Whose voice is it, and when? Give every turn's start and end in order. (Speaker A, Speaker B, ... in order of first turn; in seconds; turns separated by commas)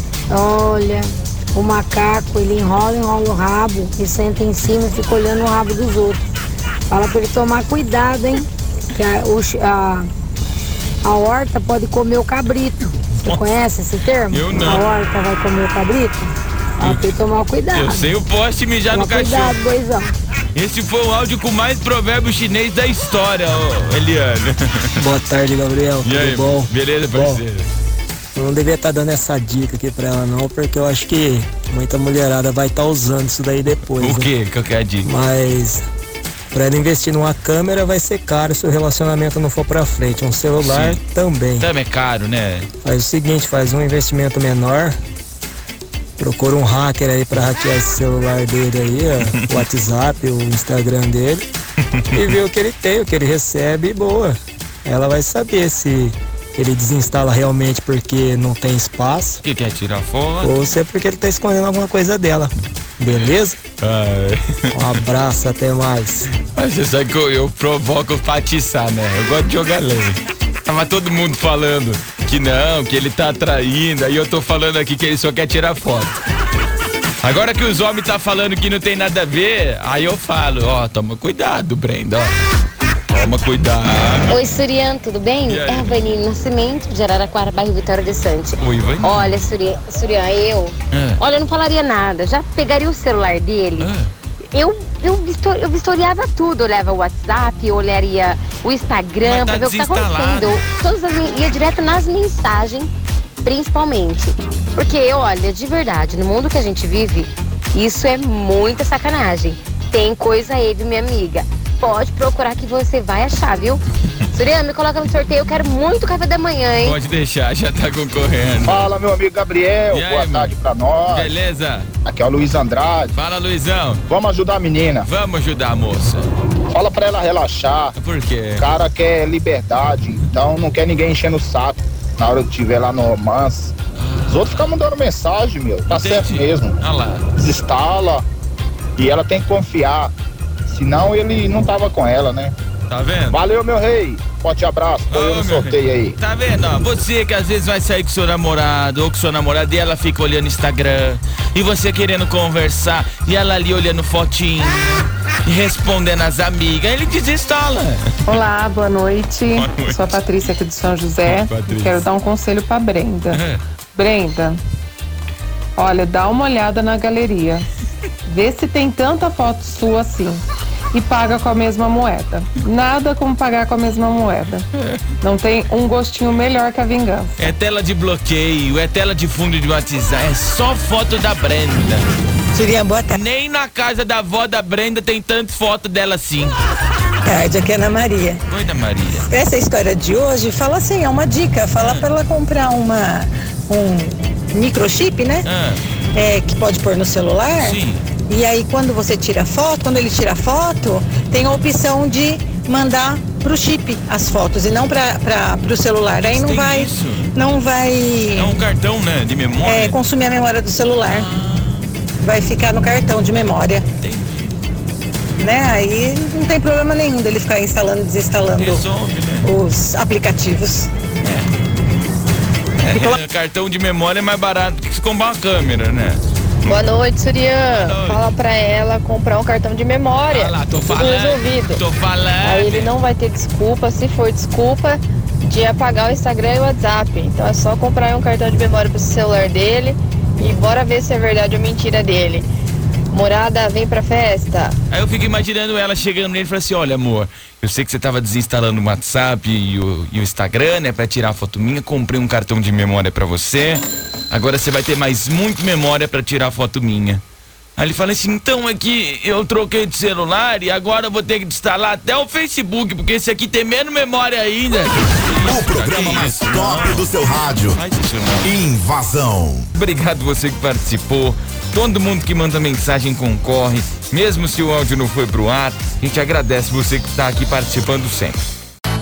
Speaker A: 0.3-6.2, Speaker A: 6.9-10.1, Speaker A: 11.0-18.1, Speaker B: 14.3-14.8, Speaker B: 16.8-17.1, Speaker B: 17.7-19.6, Speaker A: 18.9-20.1, Speaker B: 20.5-24.9, Speaker C: 25.0-27.4, Speaker B: 26.0-27.7, Speaker C: 28.3-34.3, Speaker B: 34.0-35.1, Speaker C: 35.0-35.8, Speaker C: 36.5-41.7, Speaker B: 40.6-41.0, Speaker B: 41.6-42.7, Speaker C: 42.8-45.0, Speaker C: 46.2-51.4, Speaker C: 52.1-59.4, Speaker B: 59.4-60.5, Speaker C: 60.4-63.6, Speaker B: 63.8-64.4, Speaker C: 64.7-66.3, Speaker B: 66.4-76.1, Speaker B: 77.2-82.3, Speaker B: 83.1-84.4, Speaker D: 84.3-93.9, Speaker B: 85.5-86.0, Speaker B: 88.6-89.5, Speaker B: 90.9-91.2, Speaker B: 93.8-94.1, Speaker D: 94.5-102.9, Speaker B: 99.2-100.6, Speaker D: 103.4-113.8, Speaker D: 114.3-117.0, Speaker B: 116.8-118.9, Speaker E: 118.6-121.3, Speaker B: 119.9-120.5, Speaker B: 121.1-121.9, Speaker E: 122.0-123.1, Speaker B: 123.1-124.0, Speaker E: 124.1-125.1, Speaker B: 125.0-126.3, Speaker E: 126.7-127.9, Speaker B: 128.0-128.6, Speaker E: 128.6-133.7, Speaker B: 133.9-134.7, Speaker E: 134.3-136.8, Speaker B: 135.9-137.2, Speaker E: 137.4-138.2, Speaker E: 139.0-140.1, Speaker E: 140.7-142.5, Speaker B: 142.9-143.4, Speaker E: 143.3-146.2, Speaker B: 145.1-158.1, Speaker F: 158.2-163.4, Speaker B: 159.5-160.2, Speaker B: 161.2-162.0, Speaker B: 163.3-163.6, Speaker F: 163.9-164.6, Speaker F: 165.8-167.7, Speaker F: 168.3-174.7, Speaker F: 175.2-177.4, Speaker B: 177.4-182.1, Speaker G: 182.5-183.2, Speaker B: 183.1-186.6, Speaker G: 187.2-188.4, Speaker B: 188.5-189.3, Speaker G: 189.3-195.4, Speaker B: 191.8-192.1, Speaker B: 195.4-195.8, Speaker G: 196.1-208.6, Speaker B: 197.6-198.0, Speaker B: 206.2-207.3, Speaker B: 208.3-210.0, Speaker G: 209.6-211.3, Speaker B: 211.1-211.9, Speaker G: 212.2-213.8, Speaker B: 214.0-214.5, Speaker G: 215.4-218.8, Speaker B: 218.6-219.5, Speaker G: 219.4-220.9, Speaker B: 221.2-221.5, Speaker B: 222.8-226.8, Speaker G: 222.9-223.2, Speaker H: 226.7-231.8, Speaker B: 227.7-228.2, Speaker B: 230.3-232.9, Speaker H: 232.4-242.4, Speaker H: 243.1-244.7, Speaker B: 244.9-257.2, Speaker B: 257.8-267.0, Speaker I: 265.4-267.8, Speaker B: 267.7-268.5, Speaker I: 268.4-269.7, Speaker B: 269.7-278.4